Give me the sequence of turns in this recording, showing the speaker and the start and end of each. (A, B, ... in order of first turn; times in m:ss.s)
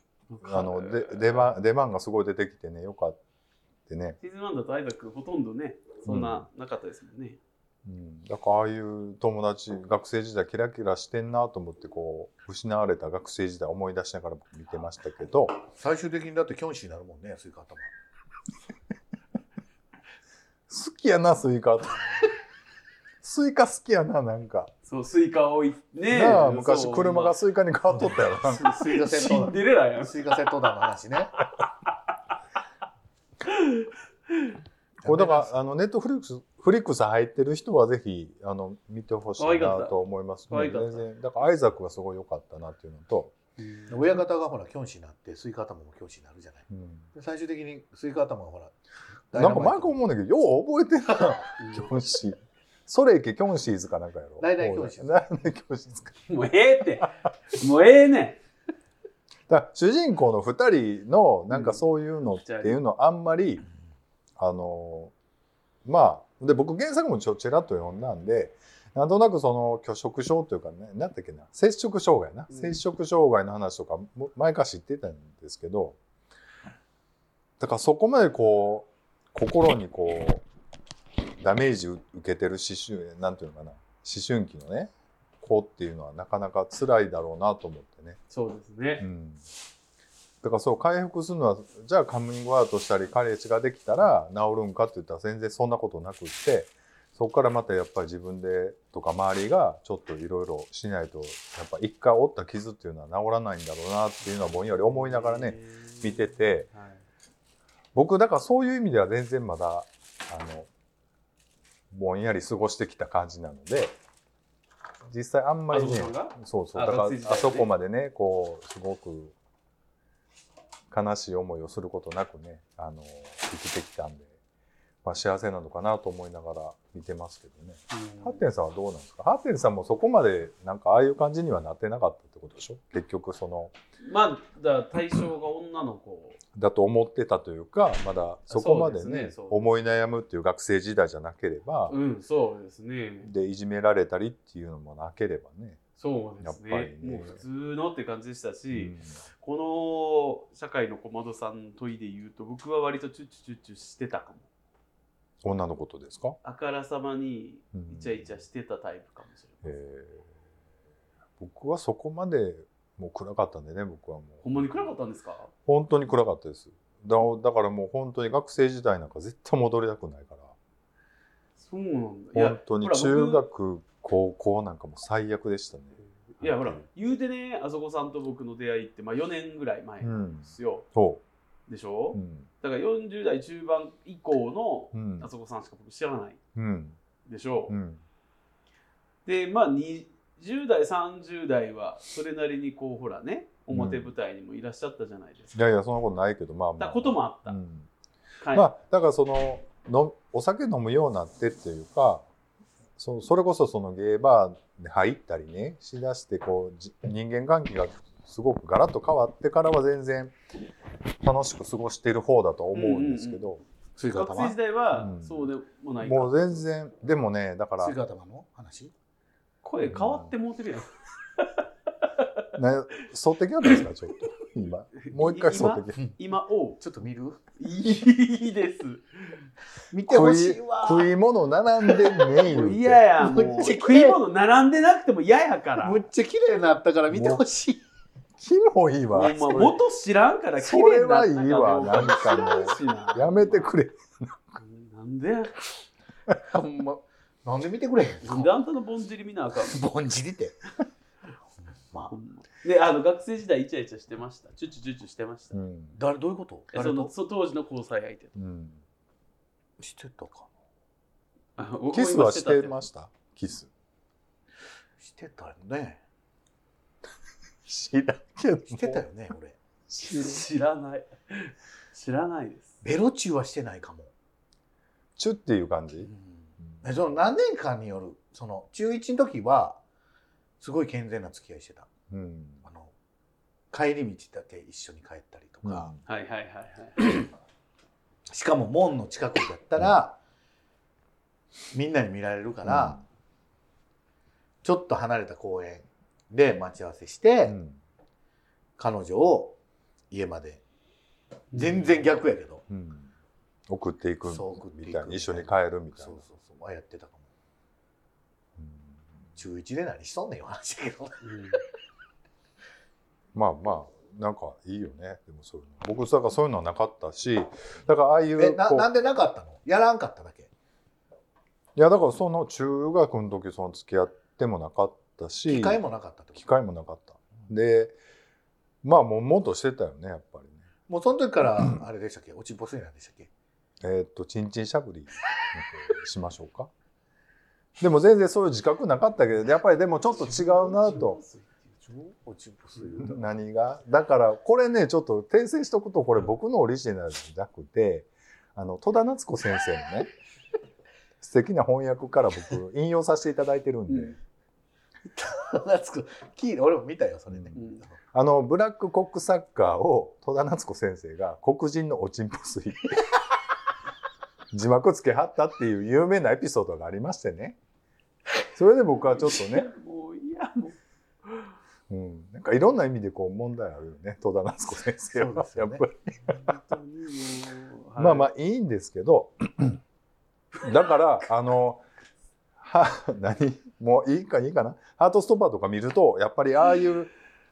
0:00.3-0:01.5 A
0:00.4-0:03.2 B
0:03.9-0:04.2 B
0:04.2-0:07.4 A
0:06.1-0:06.4 B
0:07.8-0:15.6 B
0:15.7-0:17.9 C
0:20.7-0:22.2 B
0:23.2-0:24.7 B
0:24.9-0:27.4 A
0:26.1-0:28.6 B
0:28.4-0:31.3 C
0:28.4-0:30.5 A
0:33.5-0:34.5 A
0:35.0-0:35.5 C
0:35.0-0:43.3 B
0:39.4-0:40.0 A
0:40.5-0:41.0 A
0:43.6-0:44.1 A
0:43.9-0:48.7 C
0:46.7-0:47.0 B
0:49.3-0:50.0 C
0:49.3-0:56.2 B
0:51.6-0:51.9 A
0:54.4-0:55.2 C
0:56.3-0:58.4 A
0:59.5-1:03.6 B
1:01.5-1:01.8 A
1:02.4-1:02.8 A
1:04.4-1:05.1 B
1:05.8-1:16.0 B
1:12.5-1:12.8 A
1:17.6-1:20.4 B
1:21.4-1:28.2 B
1:28.3-1:29.1 A
1:29.0-1:29.4 B
1:30.4-1:46.7 B
1:44.7-1:47.0 A
1:47.9-1:50.7 B
1:51.9-1:54.0 B
1:55.1-1:59.4 B
1:55.7-1:57.7 A
2:00.9-2:04.3 B
2:05.0-2:13.7 B
2:07.9-2:08.4 A
2:14.0-2:16.4 A
2:16.6-2:22.0 B
2:18.5-2:19.6 A
2:21.9-2:23.3 A
2:23.2-2:25.8 B
2:26.0-2:34.5 A
2:26.4-2:27.4 B
2:28.7-2:29.2 B
2:35.4-2:36.4 B
2:36.4-2:39.8 A
2:37.7-2:38.3 B
2:39.6-2:40.3 B
2:41.4-2:44.9 B
2:44.4-2:45.5 A
2:45.7-2:50.5 B
2:51.6-2:53.4 A
2:52.3-2:56.9 B
2:56.3-3:00.9 A
3:00.0-3:01.2 B
3:01.7-3:06.4 A
3:02.1-3:02.5 B
3:04.9-3:05.3 B
3:06.6-3:07.0 B
3:07.2-3:07.8 A
3:07.7-3:08.0 B
3:09.3-3:15.6 A
3:13.7-3:14.1 B
3:15.6-3:17.9 B
3:16.8-3:17.6 A
3:18.4-3:18.7 A
3:18.5-3:22.3 B
3:23.0-3:30.4 B
3:31.2-3:33.6 B
3:32.7-3:36.6 A
3:34.0-3:34.6 C
3:34.9-3:35.5 B
3:36.0-3:38.0 B
3:37.8-3:38.9 C
3:39.6-3:41.5 A
3:39.9-3:40.3 B
3:42.6-3:46.0 B
3:45.0-3:46.8 A
3:46.8-3:47.4 C
3:47.6-3:49.4 A
3:49.9-3:51.1 C
3:50.1-3:53.0 B
3:52.4-3:56.0 A
3:53.2-3:54.2 C
3:55.8-3:57.8 C
3:57.1-3:57.4 B
3:58.4-3:59.8 B
3:59.1-4:03.7 A
4:00.6-4:04.6 B
4:04.6-4:05.6 A
4:06.5-4:08.5 C
4:08.2-4:09.8 A
4:09.6-4:10.6 C
4:12.1-4:15.6 A
4:15.5-4:16.0 B
4:16.0-4:17.1 C
4:16.7-4:18.4 A
4:18.4-4:18.8 B
4:19.8-4:20.5 C
4:21.6-4:22.8 A
4:21.9-4:23.7 B
4:25.0-4:26.0 C
4:27.7-4:29.0 B
4:28.7-4:29.6 C
4:29.9-4:30.5 B
4:30.0-4:32.8 A
4:32.8-4:34.1 C
4:35.2-4:36.1 B
4:36.0-4:39.8 C
4:40.6-4:41.9 C
4:42.1-4:42.6 B
4:42.7-4:42.9 C
4:43.7-4:45.9 C
4:45.6-4:46.0 B
4:46.1-4:47.3 A
4:48.3-4:50.2 C
4:51.7-4:53.0 C
4:52.6-4:53.0 B
4:54.6-4:57.6 C
4:57.4-4:57.8 B
4:58.8-4:59.6 C
5:00.1-5:00.6 C
5:01.5-5:01.9 A
5:01.6-5:02.6 C
5:02.7-5:03.1 B
5:03.7-5:06.2 B
5:04.3-5:07.3 C
5:08.6-5:09.4 B
5:09.4-5:11.2 C
5:11.2-5:11.6 A
5:13.3-5:18.9 B
5:18.4-5:20.5 C
5:21.8-5:25.8 B
5:25.5-5:26.4 C
5:26.4-5:28.0 B
5:28.8-5:30.6 B
5:30.9-5:33.3 C
5:33.8-5:36.7 B
5:37.8-5:41.2 B
5:40.2-5:41.7 A
5:41.9-5:43.2 C
5:43.0-5:50.1 B
5:51.2-5:54.2 B
5:53.9-5:54.2 A
5:55.1-5:58.0 C
5:57.6-5:57.8 A
5:58.1-6:03.2 B
6:04.5-6:07.6 B
6:08.5-6:09.7 B
6:09.4-6:11.5 A
6:11.9-6:16.4 B
6:15.1-6:15.8 C
6:16.3-6:18.3 A
6:18.0-6:19.8 B
6:20.6-6:21.8 B
6:22.6-6:27.1 B